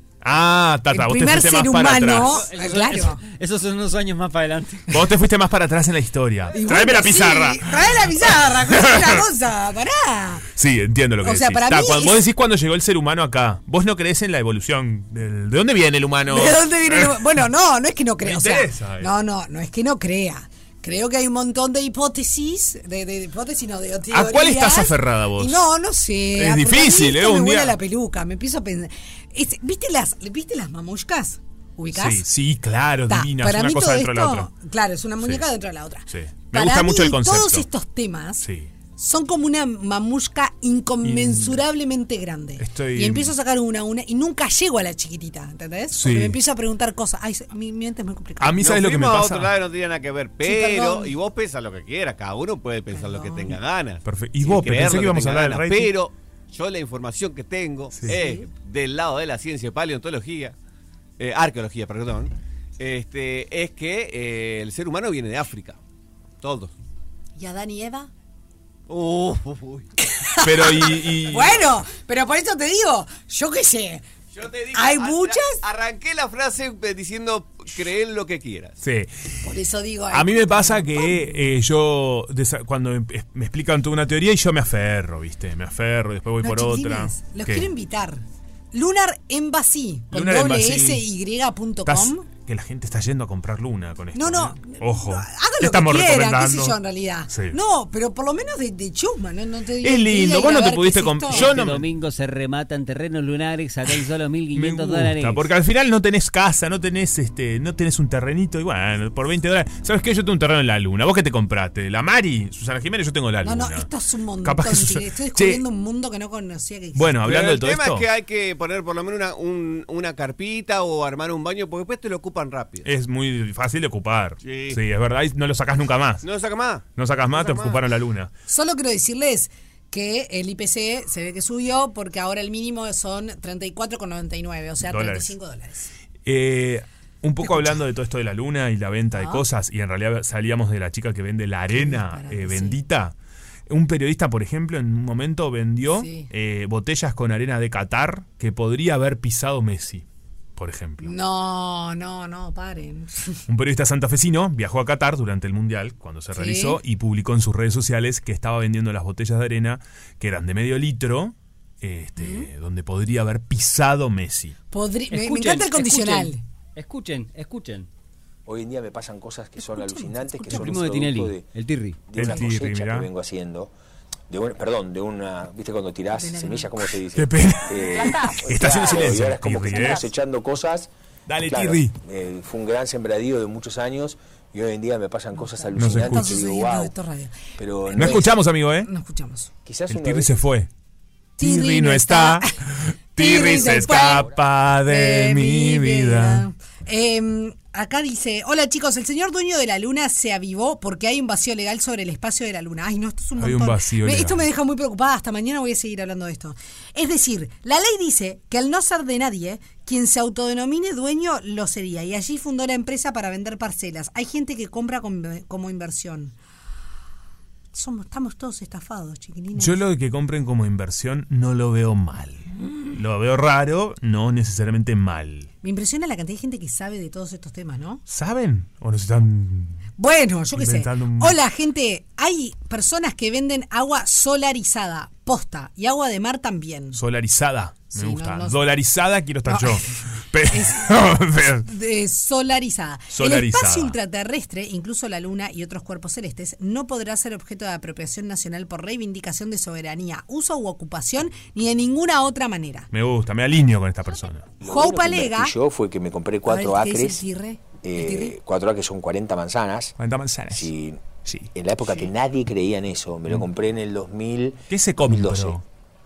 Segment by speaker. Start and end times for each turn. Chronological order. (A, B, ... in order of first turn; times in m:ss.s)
0:00.2-0:02.4 A
0:00.9-0:03.2 B
0:02.2-0:04.9 C
0:04.9-0:09.2 A
0:06.5-0:10.4 B
0:10.5-0:17.4 A
0:11.2-0:12.2 B
0:16.3-0:32.2 B
0:18.2-0:19.1 A
0:24.1-0:25.6 A
0:26.3-0:27.8 A
0:31.9-0:34.5 A
0:33.1-0:48.6 B
0:35.2-0:35.4 A
0:36.1-0:37.7 A
0:38.4-0:38.7 A
0:41.0-0:41.6 A
0:42.6-0:43.3 A
0:45.9-0:46.4 A
0:48.4-0:49.5 A
0:48.6-1:00.6 D
0:50.4-0:51.1 B
0:52.9-0:53.6 B
0:54.0-0:55.9 A
0:57.9-0:58.2 A
0:58.0-0:58.4 B
1:01.2-1:05.8 D
1:06.4-1:06.7 D
1:07.4-1:08.1 B
1:08.9-1:09.9 D
1:10.0-1:14.0 B
1:10.4-1:11.6 A
1:14.3-1:18.8 D
1:14.7-1:15.6 B
1:18.8-1:19.1 A
1:19.4-1:21.3 B
1:20.1-1:27.7 A
1:26.4-1:32.3 B
1:30.1-1:31.0 A
1:31.8-1:36.8 A
1:34.1-1:41.5 B
1:37.3-1:37.6 A
1:39.8-1:41.8 A
1:41.3-1:45.4 C
1:44.5-1:53.9 A
1:53.4-1:57.2 B
1:54.4-1:55.6 A
1:56.9-1:58.1 A
1:57.2-2:02.9 D
2:02.8-2:06.2 A
2:04.4-2:04.8 D
2:06.2-2:07.8 D
2:07.0-2:08.3 A
2:08.5-2:15.9 B
2:14.8-2:15.3 A
2:16.2-2:23.1 A
2:19.2-2:19.4 B
2:21.7-2:22.8 B
2:23.7-2:31.1 A
2:25.9-2:26.3 B
2:31.0-2:33.4 B
2:33.5-2:44.6 A
2:36.3-2:36.8 B
2:42.2-2:42.5 B
2:44.7-2:46.4 B
2:45.1-2:47.9 C
2:48.4-2:51.4 E
2:49.7-2:50.8 B
2:50.5-2:52.0 C
2:52.1-2:53.7 E
2:52.1-2:53.1 A
2:54.3-3:00.9 E
2:56.1-2:56.7 B
2:57.1-3:00.1 A
3:01.3-3:02.0 A
3:01.4-3:06.9 E
3:05.4-3:09.5 B
3:05.8-3:06.4 A
3:07.6-3:08.3 E
3:07.9-3:08.9 A
3:09.6-3:10.4 E
3:09.9-3:10.7 A
3:11.4-3:12.5 B
3:11.4-3:16.5 A
3:13.2-3:14.3 B
3:14.8-3:36.3 B
3:23.4-3:24.4 A
3:37.7-3:39.8 B
3:39.6-3:45.5 A
3:42.6-3:43.0 B
3:45.6-3:48.0 B
3:48.1-3:49.8 A
3:50.0-3:57.0 B
3:50.5-3:51.4 A
3:56.9-4:01.7 A
3:57.9-3:58.6 B
3:59.4-3:59.8 B
4:00.5-4:01.0 B
4:01.6-4:12.9 B
4:03.1-4:04.0 A
4:12.9-4:14.5 A
4:14.6-4:17.2 E
4:14.6-4:15.5 B
4:16.5-4:18.4 B
4:17.8-4:19.9 E
4:20.0-4:20.7 A
4:20.5-4:21.0 E
4:21.2-4:21.5 A
4:21.5-4:25.6 E
4:24.7-4:25.6 A